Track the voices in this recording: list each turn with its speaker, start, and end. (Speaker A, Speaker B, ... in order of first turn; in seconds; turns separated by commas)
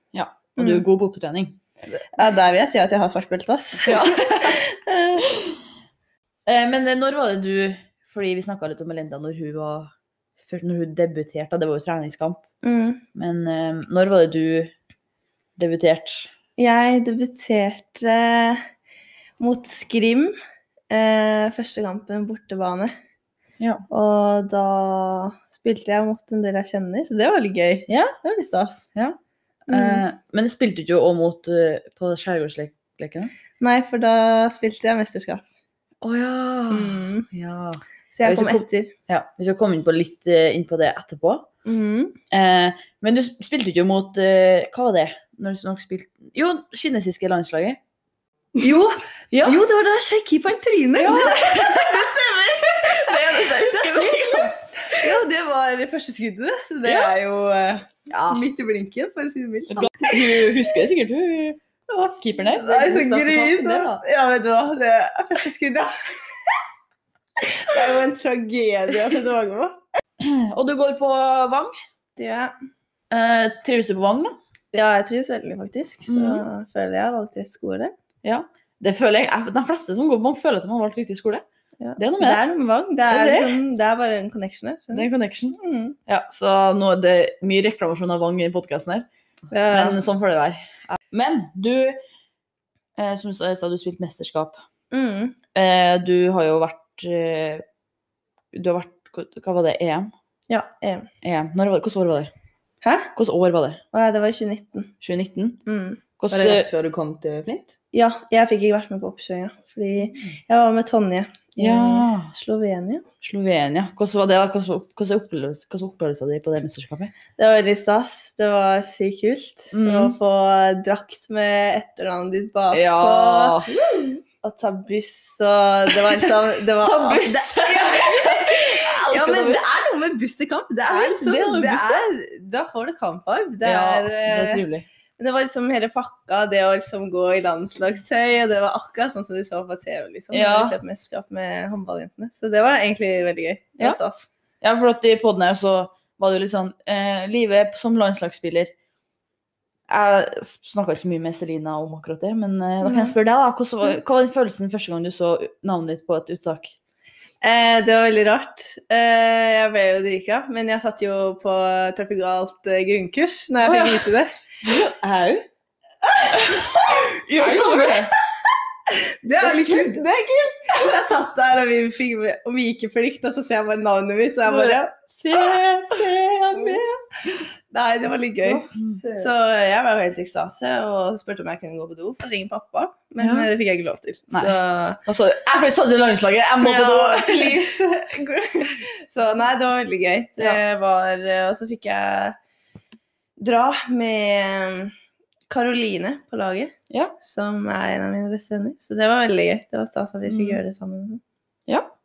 Speaker A: 0.1-1.6, Speaker B: 0.6-0.8, Speaker B: 2.1-5.3, Speaker A: 3.8-4.6, Speaker A: 6.5-9.9, Speaker A: 10.4-12.4, Speaker B: 12.6-13.0, Speaker A: 13.1-14.7, Speaker A: 15.6-16.3, Speaker B: 16.6-18.6, Speaker B: 19.4-20.4, Speaker B: 20.9-22.9, Speaker B: 23.9-28.9, Speaker A: 27.9-28.1, Speaker A: 29.7-33.3, Speaker B: 29.7-30.0, Speaker B: 33.6-35.4, Speaker A: 36.0-41.5, Speaker B: 36.7-37.3, Speaker B: 38.1-38.9, Speaker B: 41.6-42.2, Speaker A: 42.3-47.8, Speaker B: 48.6-60.4, Speaker A: 49.3-49.6, Speaker A: 51.0-52.1, Speaker A: 52.8-55.0, Speaker A: 56.9-57.1, Speaker A: 58.1-58.4, Speaker A: 59.7-61.6, Speaker B: 61.9-65.9, Speaker A: 62.2-62.6, Speaker C: 62.6-64.0, Speaker B: 67.4-69.8, Speaker A: 70.2-71.7, Speaker B: 72.2-72.5, Speaker A: 73.1-74.3, Speaker B: 74.7-77.9, Speaker A: 76.1-76.5, Speaker A: 78.2-81.4, Speaker B: 81.8-86.0, Speaker A: 82.0-82.4, Speaker A: 83.1-83.6, Speaker A: 84.9-89.0, Speaker B: 89.5-90.0, Speaker A: 89.7-92.0, Speaker A: 93.0-94.6, Speaker B: 94.9-95.4, Speaker A: 95.5-97.6, Speaker A: 98.5-100.1, Speaker B: 100.5-101.1, Speaker A: 101.2-102.3, Speaker B: 102.8-103.1, Speaker A: 103.1-103.8, Speaker B: 103.9-104.9, Speaker A: 105.0-105.6, Speaker B: 105.7-106.0, Speaker A: 106.2-106.7, Speaker C: 106.3-107.8, Speaker B: 107.9-113.0, Speaker A: 111.6-112.3, Speaker A: 113.2-117.1, Speaker B: 117.4-134.6, Speaker A: 119.7-120.2, Speaker A: 122.7-123.7, Speaker A: 126.8-129.7, Speaker A: 130.8-132.1, Speaker A: 133.6-134.9, Speaker B: 135.2-144.3, Speaker A: 140.3-140.8, Speaker A: 144.6-148.7, Speaker A: 149.9-156.7, Speaker B: 152.8-153.1, Speaker B: 157.4-164.3, Speaker A: 163.6-164.1, Speaker C: 164.6-165.5, Speaker A: 166.3-168.1, Speaker C: 167.4-168.1, Speaker B: 168.9-185.0, Speaker C: 169.4-169.9, Speaker A: 174.5-175.5, Speaker C: 176.5-176.8, Speaker C: 178.4-179.3, Speaker A: 178.7-179.0, Speaker A: 183.2-183.5, Speaker A: 184.3-187.6, Speaker B: 186.6-192.4, Speaker B: 193.4-194.9, Speaker B: 195.5-201.2, Speaker A: 200.3-200.6